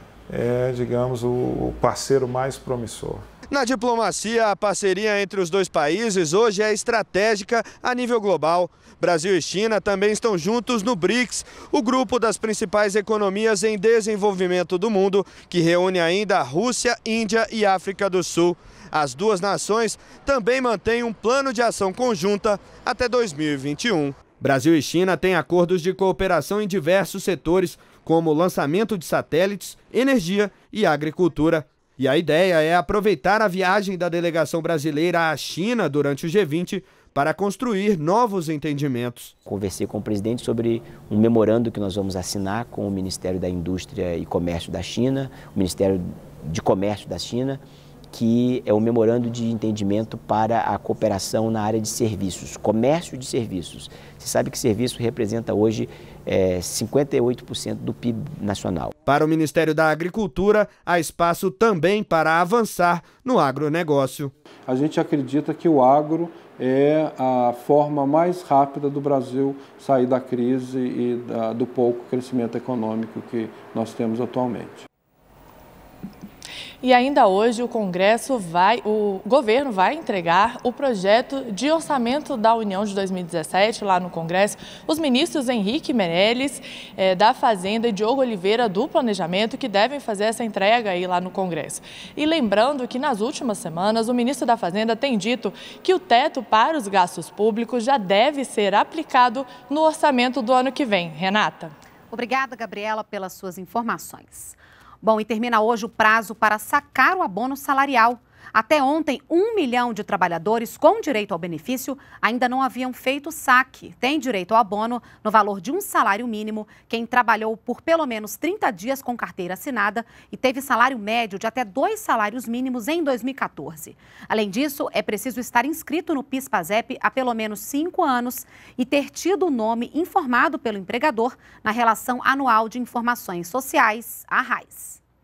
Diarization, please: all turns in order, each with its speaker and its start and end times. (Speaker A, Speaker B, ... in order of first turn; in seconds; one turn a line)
Speaker A: 0.3-3.2
Speaker B: 3.5-39.3
Speaker C: 39.5-58.9
Speaker B: 59.0-64.3
Speaker D: 64.7-74.9
Speaker E: 76.8-101.7
Speaker F: 102.1-135.0